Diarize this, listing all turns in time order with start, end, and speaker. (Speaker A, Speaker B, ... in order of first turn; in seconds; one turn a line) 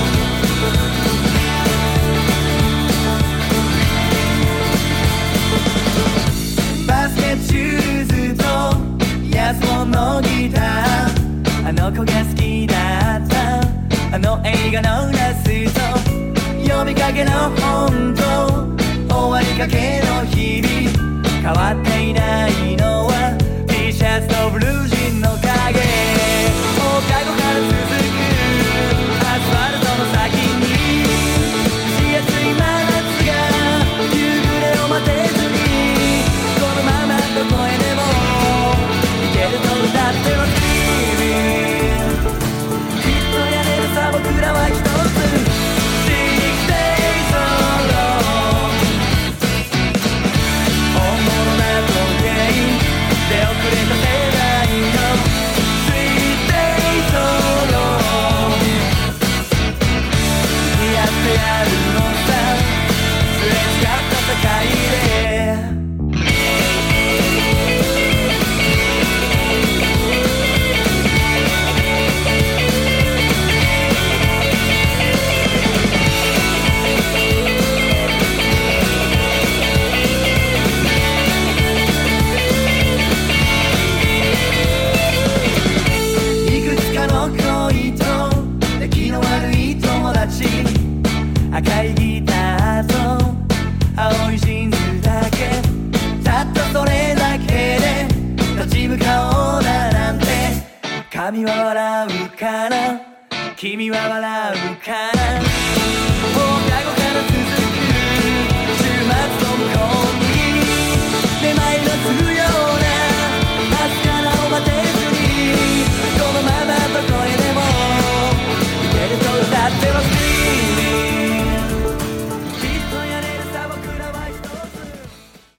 Speaker A: 6.7-42.1
Speaker A: 43.0-48.9
Speaker A: 50.9-58.9
Speaker A: 60.6-65.8
Speaker A: 86.4-91.0
Speaker A: 91.5-105.7
Speaker A: 106.3-121.7
Speaker A: 122.5-125.2